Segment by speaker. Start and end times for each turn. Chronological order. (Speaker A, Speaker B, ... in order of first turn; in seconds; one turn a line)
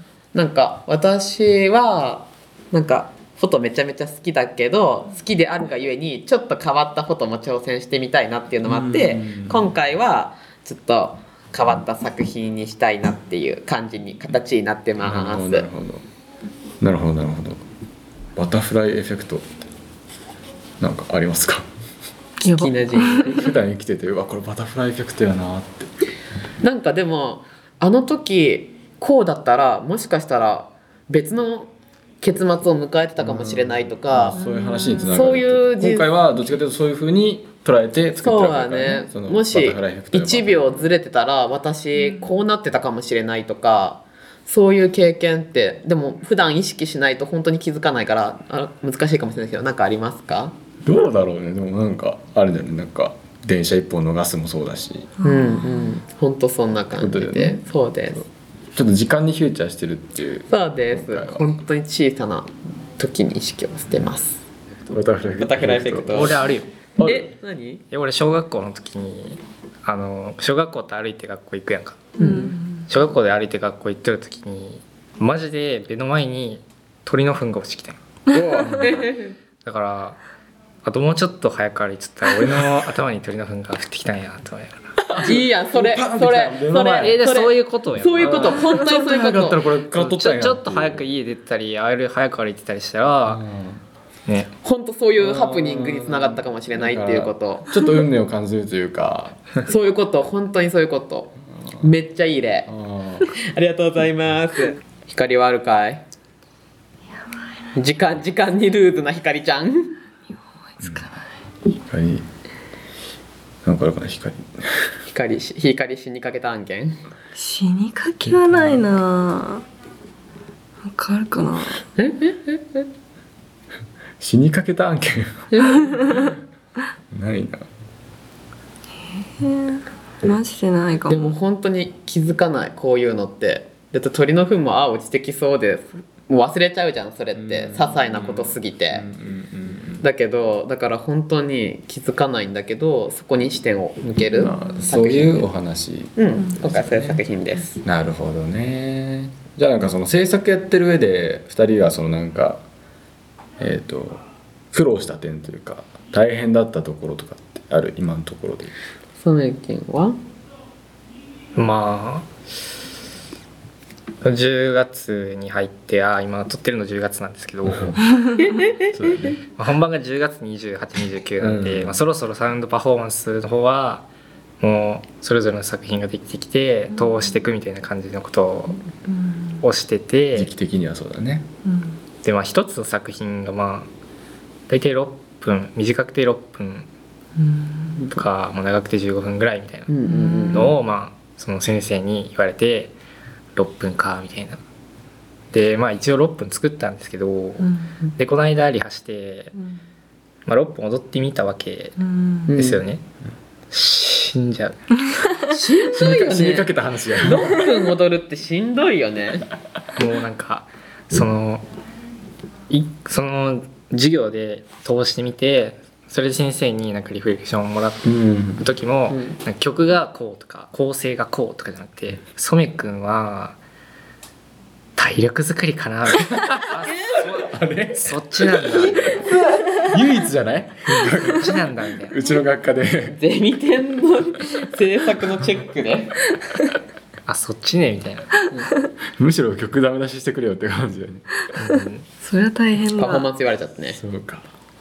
Speaker A: 0.3-15.7
Speaker B: 8.6-9.7
Speaker B: 15.0-16.0
Speaker B: 16.8-17.6
Speaker B: 18.3-19.6
Speaker B: 20.8-21.6
Speaker C: 22.4-23.3
Speaker A: 22.4-23.4
Speaker B: 23.2-25.9
Speaker A: 26.6-34.4
Speaker B: 33.2-40.8
Speaker C: 34.4-35.1
Speaker A: 35.0-36.1
Speaker A: 38.1-50.5
Speaker B: 50.8-55.1
Speaker C: 55.2-55.9
Speaker A: 55.2-58.2
Speaker B: 57.0-57.6
Speaker B: 58.7-61.6
Speaker A: 60.5-64.4
Speaker B: 64.9-66.4
Speaker A: 65.4-66.4
Speaker D: 66.1-66.7
Speaker B: 67.0-67.3
Speaker A: 67.0-67.8
Speaker D: 67.9-78.0
Speaker A: 72.2-72.5
Speaker C: 72.2-72.8
Speaker A: 78.3-79.3
Speaker B: 78.3-79.0
Speaker D: 79.6-80.2
Speaker D: 80.8-84.9
Speaker B: 85.0-87.3
Speaker A: 85.2-89.7
Speaker D: 86.8-88.6
Speaker B: 88.2-91.0
Speaker D: 89.9-93.4
Speaker B: 93.3-93.8
Speaker A: 94.6-97.7
Speaker B: 95.2-99.5
Speaker A: 99.6-102.7
Speaker B: 102.7-103.3
Speaker A: 103.3-106.0
Speaker A: 107.7-110.0
Speaker C: 110.8-111.2
Speaker B: 111.8-112.3
Speaker B: 113.6-114.9
Speaker A: 115.1-117.0
Speaker C: 117.3-119.6
Speaker C: 120.8-121.8
Speaker A: 122.0-122.8
Speaker B: 124.2-125.6
Speaker A: 125.5-125.9
Speaker B: 127.1-127.7
Speaker C: 129.2-131.3
Speaker A: 131.1-139.1
Speaker B: 137.3-140.0
Speaker A: 140.0-145.5
Speaker B: 144.3-147.2
Speaker A: 146.2-147.8
Speaker B: 147.8-152.6
Speaker B: 153.6-158.7
Speaker A: 159.2-160.2
Speaker D: 161.5-162.3
Speaker D: 164.2-168.1
Speaker A: 168.4-168.9
Speaker B: 168.9-169.4
Speaker D: 169.6-174.1
Speaker B: 171.4-172.0
Speaker D: 174.6-178.8
Speaker D: 179.6-180.5
Speaker B: 180.3-181.5
Speaker C: 181.6-182.0
Speaker D: 182.2-183.9
Speaker D: 184.7-186.9
Speaker C: 187.4-188.0
Speaker D: 188.1-190.0
Speaker A: 189.9-190.7
Speaker C: 190.1-190.7
Speaker D: 190.5-192.9
Speaker D: 193.5-194.6
Speaker D: 195.5-199.5
Speaker D: 200.4-201.9
Speaker C: 202.0-202.5
Speaker A: 202.5-202.8
Speaker D: 202.5-203.0
Speaker D: 203.7-204.9
Speaker A: 205.5-209.5
Speaker B: 205.8-207.8
Speaker D: 209.9-211.6
Speaker D: 212.7-223.6
Speaker B: 218.0-218.6
Speaker A: 219.1-219.4
Speaker D: 225.0-229.3
Speaker B: 226.2-229.0
Speaker A: 229.0-229.8
Speaker B: 229.8-233.2
Speaker D: 231.2-232.2
Speaker A: 233.1-236.5
Speaker D: 237.2-238.4
Speaker B: 239.2-241.3
Speaker D: 241.5-242.0
Speaker C: 242.2-243.3
Speaker A: 242.9-244.0
Speaker B: 243.9-244.4